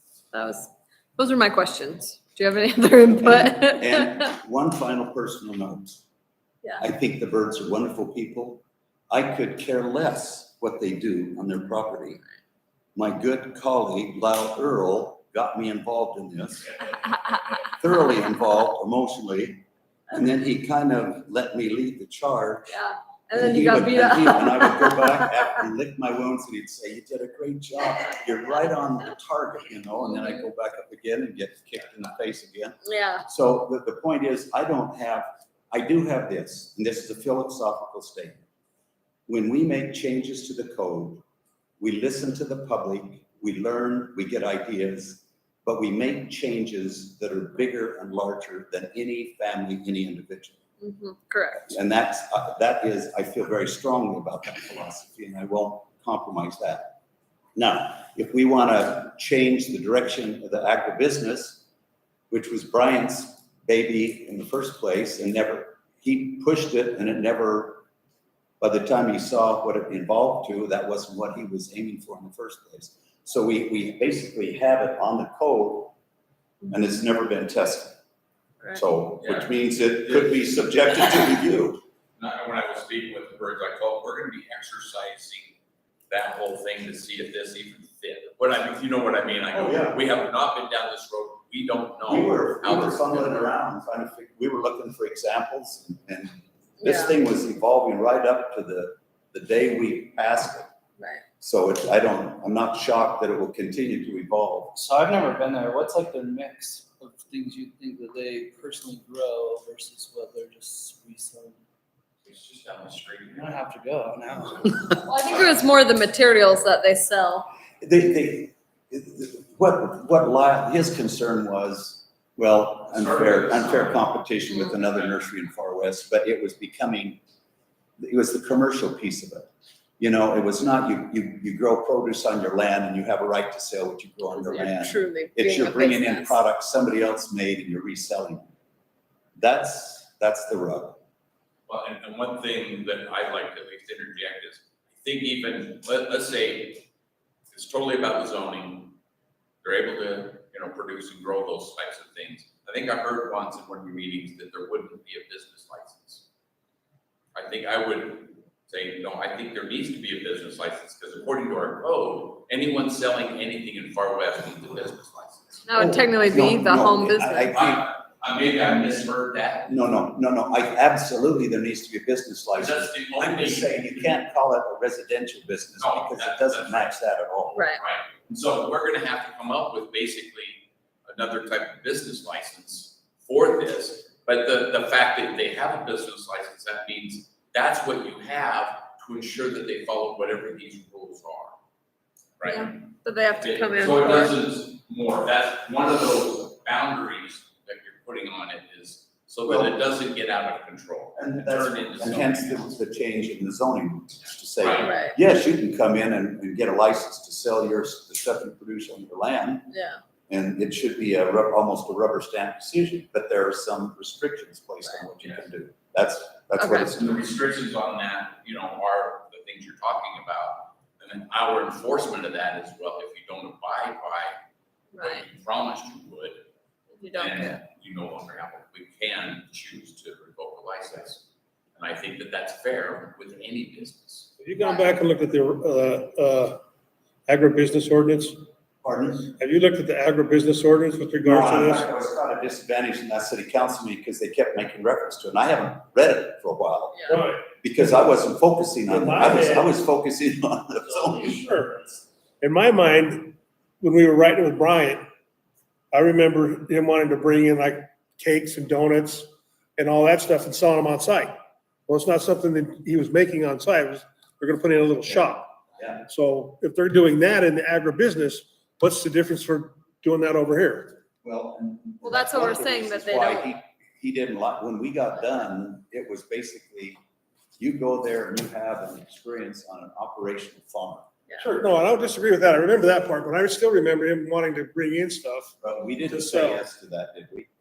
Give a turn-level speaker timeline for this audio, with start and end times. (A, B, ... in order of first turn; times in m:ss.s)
0:00.3-0:04.3 A
0:03.2-0:06.0 B
0:06.8-0:12.2 B
0:13.0-0:16.7 B
0:17.6-0:22.8 B
0:22.7-0:25.3 A
0:23.3-0:38.4 B
0:32.8-0:33.2 A
0:39.3-0:41.2 B
0:41.8-0:50.6 B
0:50.8-0:51.7 A
0:51.6-0:57.0 B
0:57.6-1:01.6 B
1:02.3-1:07.8 B
1:08.6-1:16.0 B
1:16.7-1:18.0 B
1:18.7-1:21.8 B
1:19.2-1:19.5 C
1:20.1-1:20.4 C
1:22.2-1:25.6 C
1:26.1-1:33.5 C
1:29.6-1:30.0 B
1:32.1-1:40.7 B
1:36.8-1:37.1 A
1:41.0-1:41.2 A
1:41.4-1:44.8 B
1:44.7-1:51.6 D
1:52.2-1:53.6 C
1:53.3-1:55.1 D
1:55.1-1:57.5 A
1:57.8-2:07.2 B
2:02.9-2:04.0 C
2:04.9-2:05.2 C
2:08.0-2:18.5 B
2:14.4-2:16.4 A
2:19.4-2:21.0 B
2:21.7-2:26.9 C
2:27.5-2:29.0 C
2:29.6-2:36.2 C
2:37.3-2:45.6 C
2:45.7-2:47.6 A
2:45.8-2:47.9 B
2:47.5-2:49.7 C
2:49.7-2:57.7 B
2:52.5-2:54.1 C
2:55.8-2:57.0 C
2:57.6-2:57.8 A
2:57.7-3:11.6 C
3:12.4-3:12.8 C
3:12.4-3:14.4 A
3:13.4-3:22.7 C
3:19.5-3:19.7 B
3:21.2-3:29.7 B
3:24.6-3:24.9 C
3:24.8-3:25.2 A
3:29.7-3:30.0 A
3:30.3-3:37.2 B
3:36.6-3:36.9 A
3:37.0-3:44.4 C
3:44.9-3:45.2 A
3:45.0-3:46.4 C
3:47.0-3:47.6 A
3:47.1-3:51.2 C
3:51.8-3:54.3 C
3:54.4-3:56.6 E
3:57.3-3:58.4 E
3:58.8-3:59.3 B
3:59.3-4:01.9 E
4:01.1-4:11.4 B
4:07.1-4:07.4 E
4:08.9-4:09.7 E
4:11.1-4:11.8 E
4:12.4-4:15.0 E
4:15.9-4:21.4 E
4:21.9-4:25.6 E
4:26.1-4:31.0 E
4:31.2-4:37.0 B
4:32.0-4:33.5 A
4:37.6-4:41.1 B
4:41.3-4:41.6 A
4:41.4-4:45.5 E
4:45.6-4:47.5 B
4:46.1-4:46.6 E